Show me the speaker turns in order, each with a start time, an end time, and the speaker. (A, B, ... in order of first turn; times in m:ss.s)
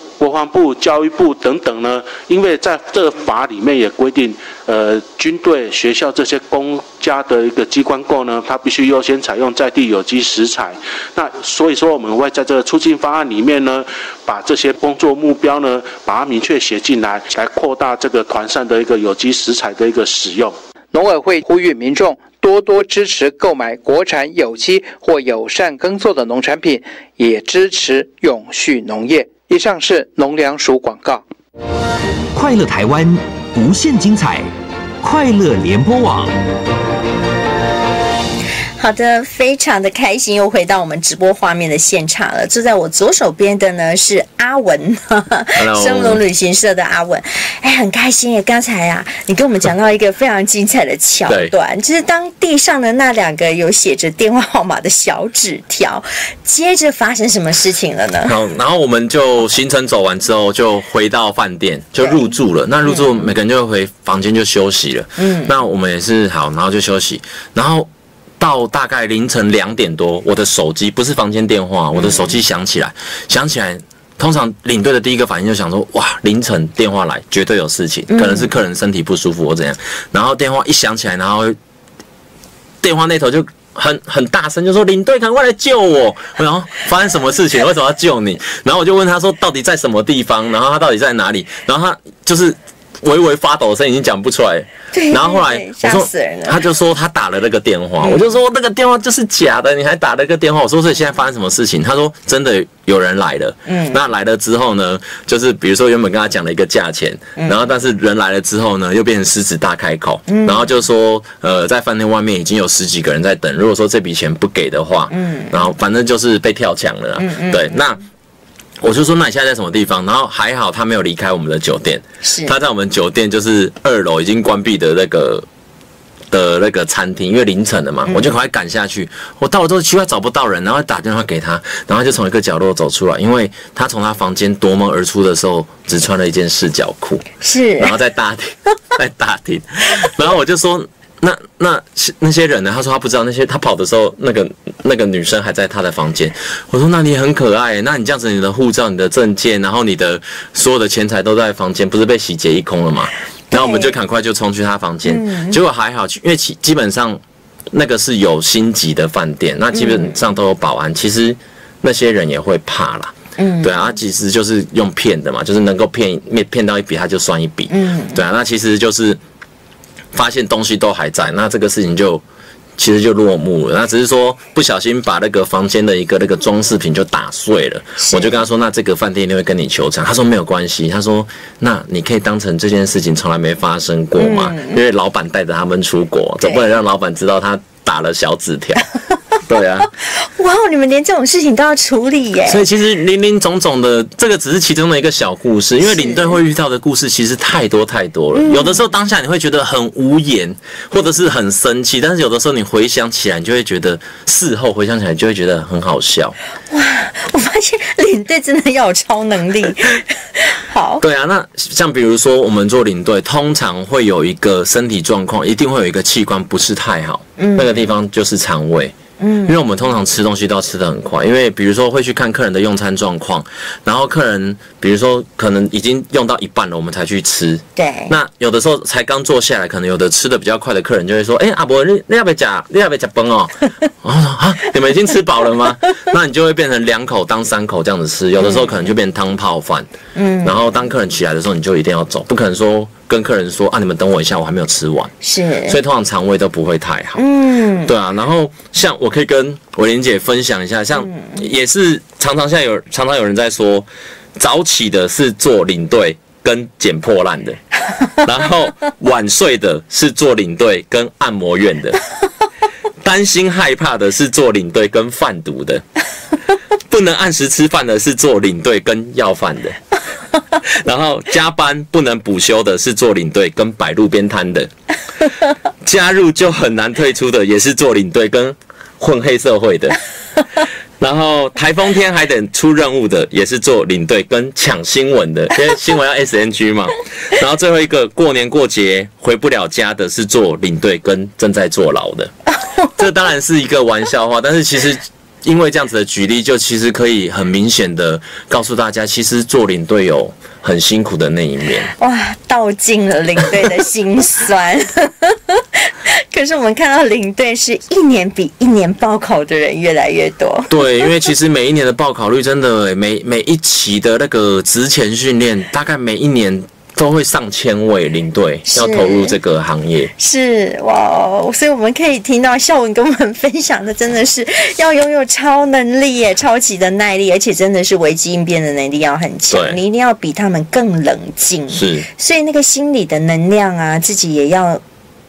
0:00.2-0:20.5 A
0:20.9-0:31.2 B
0:32.3-0:34.5 C
0:35.0-0:36.4 C
0:38.8-0:58.4 D
0:45.5-0:46.2 E
0:51.3-0:51.5 E
0:58.2-1:07.9 E
1:02.0-1:02.2 D
1:02.8-1:03.3 D
1:05.2-1:05.5 D
1:08.4-1:21.6 E
1:11.9-1:12.4 D
1:18.1-1:18.5 D
1:22.8-1:58.0 E
1:34.9-1:36.6 D
1:38.0-1:38.2 D
1:43.7-1:44.0 D
1:50.3-1:50.6 D
1:55.1-1:55.6 D
1:57.2-1:57.8 D
1:58.8-2:05.4 E
2:02.2-2:02.5 D
2:06.3-2:17.3 E
2:08.0-2:08.3 D
2:17.4-2:17.9 D
2:17.8-2:37.2 E
2:33.5-2:33.9 D
2:35.0-2:35.6 D
2:37.7-2:49.2 E
2:39.7-2:40.1 D
2:43.4-2:43.8 D
2:47.7-2:48.2 D
2:50.1-2:52.2 E
2:52.8-3:08.8 E
2:58.0-2:58.4 D
3:04.2-3:04.8 D
3:06.4-3:06.7 D
3:09.4-3:09.9 E
3:10.0-3:12.6 D
3:12.4-3:26.4 E
3:15.8-3:16.4 D
3:18.3-3:18.8 D
3:26.7-3:31.0 D
3:31.0-3:38.9 E
3:37.4-3:37.8 D
3:39.2-3:39.6 D
3:39.4-3:59.9 E
3:47.8-3:48.2 D
3:58.4-3:58.8 D
4:00.1-4:00.6 D
4:00.4-4:05.1 E
4:05.2-4:05.8 D
4:05.7-4:07.2 E
4:07.2-4:07.9 D
4:07.8-4:17.6 E
4:18.2-4:22.0 E
4:23.0-4:25.8 E
4:26.9-4:29.8 E
4:30.6-4:34.7 E
4:35.8-4:40.0 E
4:41.0-4:52.3 E
4:52.9-5:01.9 E
5:02.0-5:10.9 D
5:10.7-5:20.1 E
5:18.7-5:19.4 D
5:20.2-5:34.8 D
5:29.5-5:29.8 E
5:31.7-5:32.1 E